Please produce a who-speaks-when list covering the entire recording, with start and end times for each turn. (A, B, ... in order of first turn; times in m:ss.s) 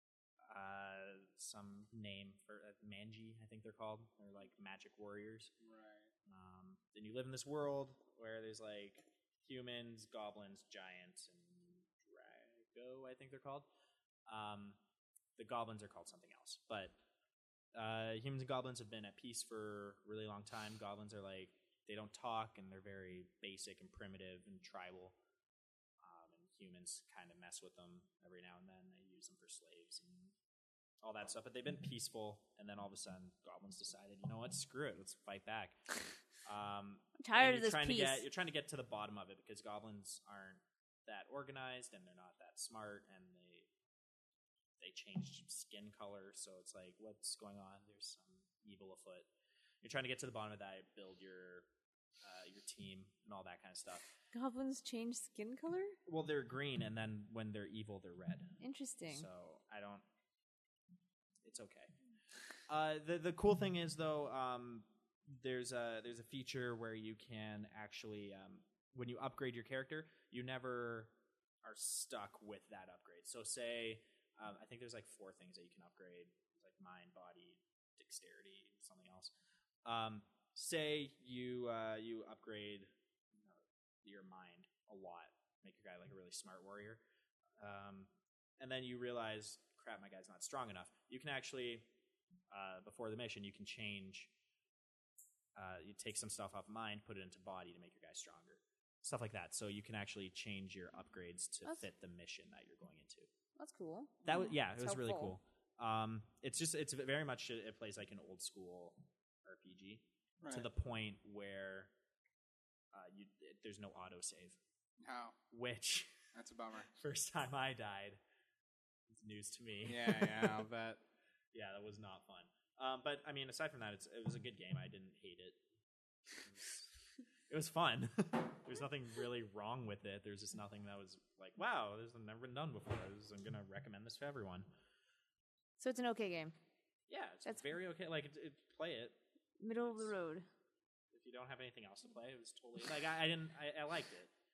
0:00.5-0:05.5 A
0:05.6-0:06.1 B
0:06.2-0:13.7 A
0:14.3-0:14.8 A
0:15.4-0:17.0 A
0:17.7-0:25.2 A
0:26.0-0:30.3 A
0:31.0-0:35.8 A
0:36.4-0:43.7 A
0:37.2-0:38.2 C
0:44.8-0:49.3 A
0:49.8-0:51.6 A
0:52.2-0:54.2 A
0:54.3-0:56.0 C
0:56.0-1:00.0 A
0:58.6-0:59.3 C
1:01.4-1:01.9 A
1:02.7-1:11.1 A
1:11.6-1:19.3 A
1:19.8-1:27.0 A
1:27.6-1:28.1 A
1:28.6-1:31.9 A
1:32.5-1:34.3 A
1:35.5-1:43.3 A
1:43.6-1:45.3 C
1:44.2-1:51.9 A
1:50.4-1:50.7 B
1:52.9-1:54.6 A
1:55.0-1:55.4 B
1:55.5-1:56.1 A
1:56.3-1:56.9 B
1:56.9-1:58.2 A
1:59.1-2:00.7 A
1:59.8-2:01.0 B
2:01.5-2:05.6 A
2:06.3-2:06.9 A
2:07.5-2:14.7 A
2:15.8-2:16.5 C
2:17.1-2:19.2 A
2:19.6-2:20.4 C
2:19.8-2:20.1 A
2:21.1-2:24.3 A